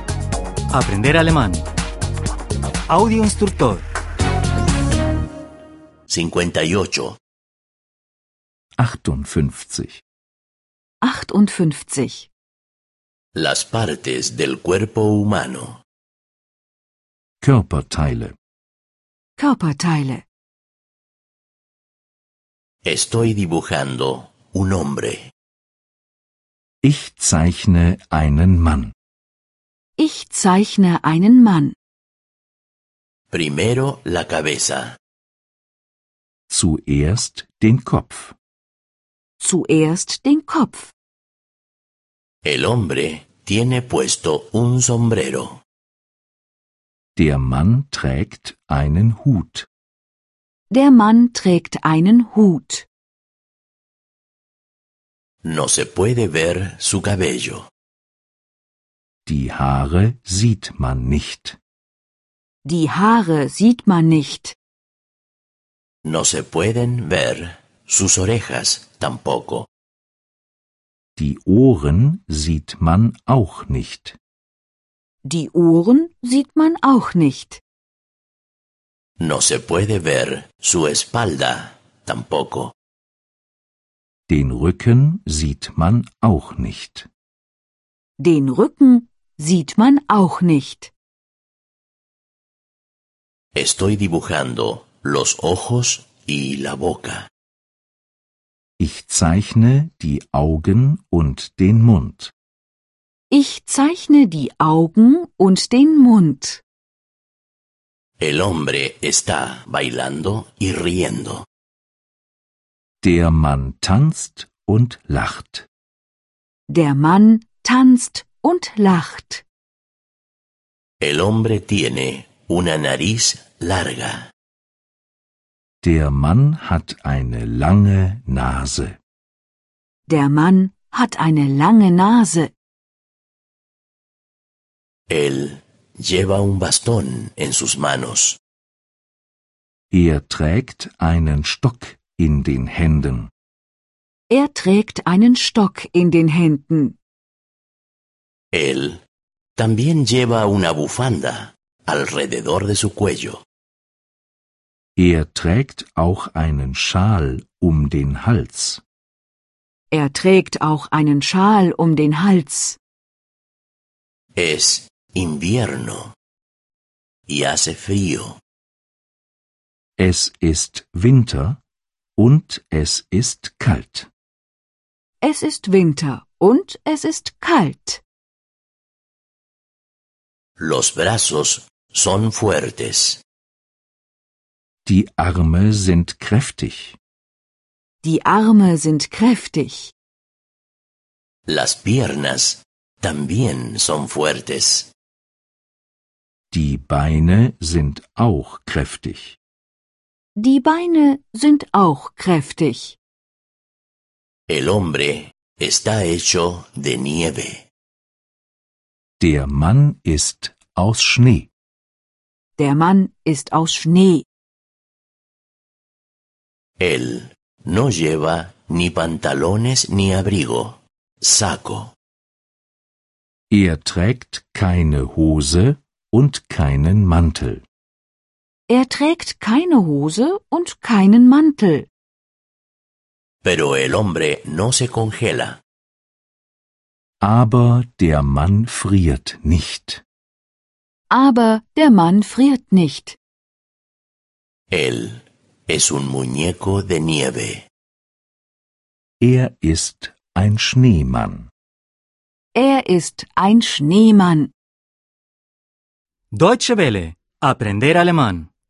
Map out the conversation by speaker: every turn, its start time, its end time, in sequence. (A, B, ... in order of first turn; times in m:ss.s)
0:00.7-0:01.7 A
0:02.9-0:03.8 A
0:06.1-0:07.2 B
0:08.8-0:10.0 C
0:11.0-0:12.3 D
0:13.4-0:15.8 B
0:17.4-0:18.4 C
0:19.4-0:20.2 D
0:22.8-0:25.3 B
0:26.8-0:28.9 C
0:30.0-0:31.8 D
0:33.3-0:35.0 B
0:36.5-0:38.4 C
0:39.4-0:40.9 D
0:42.4-0:45.6 B
0:47.2-0:49.7 C
0:50.7-0:52.9 D
0:55.4-0:57.7 B
0:59.3-1:01.6 C
1:02.6-1:04.6 D
1:06.1-1:09.7 B
1:11.2-1:14.2 C
1:15.2-1:17.6 D
1:19.2-1:22.7 B
1:24.3-1:27.1 C
1:28.2-1:30.9 D
1:33.6-1:37.3 B
1:38.8-1:42.3 C
1:43.3-1:46.6 D
1:48.2-1:51.5 B
1:53.0-1:55.7 C
1:56.7-1:59.4 D
2:01.0-2:04.3 B
2:05.8-2:09.0 C
2:10.1-2:12.5 D
2:15.1-2:18.4 B
2:19.9-2:23.3 C
2:24.3-2:27.0 D
2:28.5-2:29.0 B
2:29.6-2:33.4 B
2:35.0-2:38.8 C
2:39.9-2:42.8 D
2:44.4-2:46.1 B
2:47.3-2:48.4 B
2:50.0-2:51.6 C
2:52.2-2:54.1 C
2:55.2-2:58.0 D
3:00.6-3:03.2 B
3:04.9-3:07.0 C
3:08.0-3:09.9 D
3:11.5-3:14.9 B
3:16.5-3:19.4 C
3:20.4-3:23.0 D
3:24.5-3:27.6 B
3:29.2-3:31.5 C
3:32.6-3:34.3 D
3:36.8-3:41.9 B
3:43.5-3:47.6 C
3:48.7-3:51.9 D
3:53.4-3:55.6 B
3:57.2-4:00.0 C
4:01.1-4:03.2 D
4:04.7-4:07.7 B
4:09.2-4:11.5 C
4:12.6-4:14.5 D
4:16.3-4:18.5 A